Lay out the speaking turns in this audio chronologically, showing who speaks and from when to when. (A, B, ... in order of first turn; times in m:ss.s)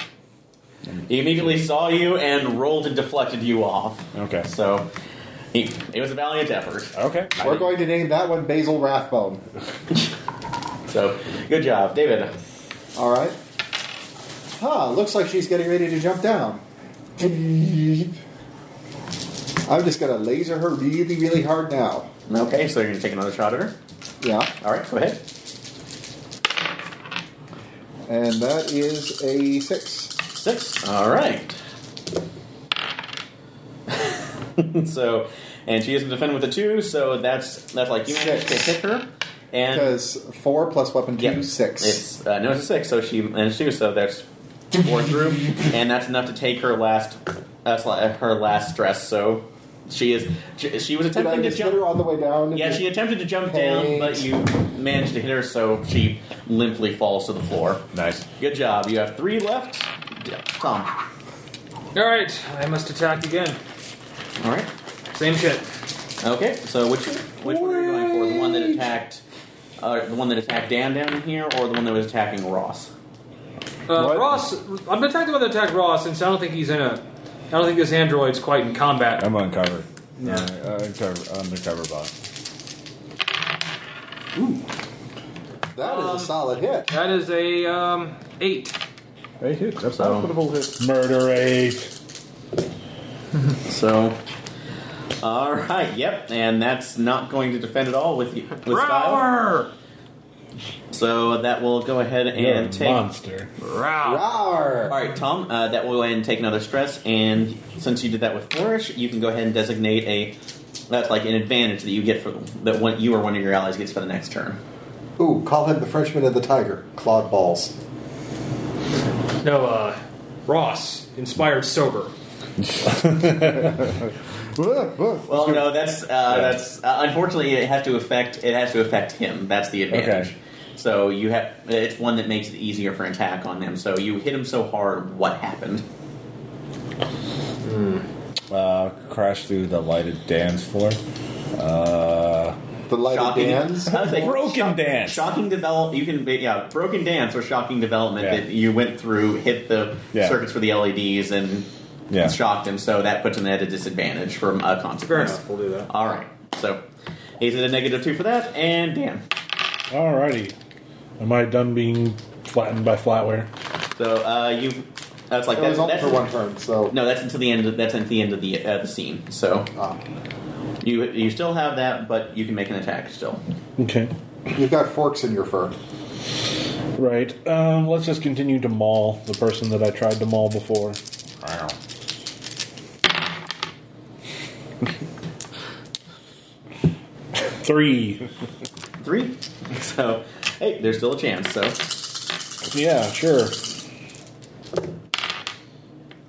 0:00.9-0:01.5 A
0:01.1-0:04.9 B
0:04.1-0:04.5 A
0:05.5-0:06.9 B
0:06.9-0:07.7 A
0:07.4-0:09.4 C
0:10.9-0:12.3 B
0:13.0-0:13.4 C
0:14.6-0:16.6 C
0:17.2-0:18.1 C
0:19.6-0:22.1 C
0:22.3-0:23.8 B
0:24.2-0:24.5 C
0:24.6-0:25.2 B
0:28.1-0:30.1 C
0:30.3-0:31.6 B
0:33.9-0:40.0 B
0:38.1-0:38.8 C
0:39.7-0:42.0 C
0:41.2-0:51.8 B
0:51.1-0:52.8 C
0:52.5-1:00.9 B
0:53.4-0:54.2 C
0:57.9-0:58.2 A
1:01.9-1:03.6 D
1:04.4-1:04.7 B
1:05.1-1:05.6 D
1:06.2-1:09.2 B
1:07.4-1:08.8 A
1:09.8-1:12.9 B
1:13.9-1:19.3 D
1:13.9-1:14.4 A
1:19.2-1:22.1 A
1:20.2-1:20.5 D
1:25.7-1:26.9 C
1:25.8-1:26.3 D
1:26.9-1:28.8 D
1:29.4-1:30.8 A
1:29.9-1:30.3 B
1:30.8-1:31.9 E
1:33.6-1:34.2 B
1:35.2-1:39.3 B
1:38.6-1:39.7 D
1:40.9-1:43.0 B
1:42.3-1:43.5 E
1:43.6-1:44.2 D
1:44.0-1:45.0 C
1:44.9-1:50.3 B
1:50.9-1:54.6 B
1:55.2-1:57.7 C
1:59.4-2:02.1 D
2:02.8-2:04.1 A
2:04.6-2:05.2 C
2:05.3-2:15.8 B
2:06.3-2:06.6 A
2:09.9-2:10.3 A
2:17.6-2:18.0 D
2:18.5-2:21.0 A
2:21.5-2:22.6 A
2:22.9-2:24.3 C
2:23.1-2:31.7 B
2:23.9-2:25.3 A
2:32.1-2:32.4 A
2:32.2-2:36.8 B
2:35.0-2:35.9 D
2:37.4-2:39.2 B
2:39.9-2:40.5 E
2:41.2-2:43.5 E
2:43.9-2:46.2 B
2:45.5-2:46.9 C
2:46.9-2:49.7 B
2:50.8-2:53.4 B
2:53.8-2:54.1 E
2:54.5-2:55.7 C
2:57.0-3:01.0 E
3:01.4-3:01.8 A
3:07.5-3:08.2 E
3:09.0-3:11.8 B
3:12.7-3:13.6 E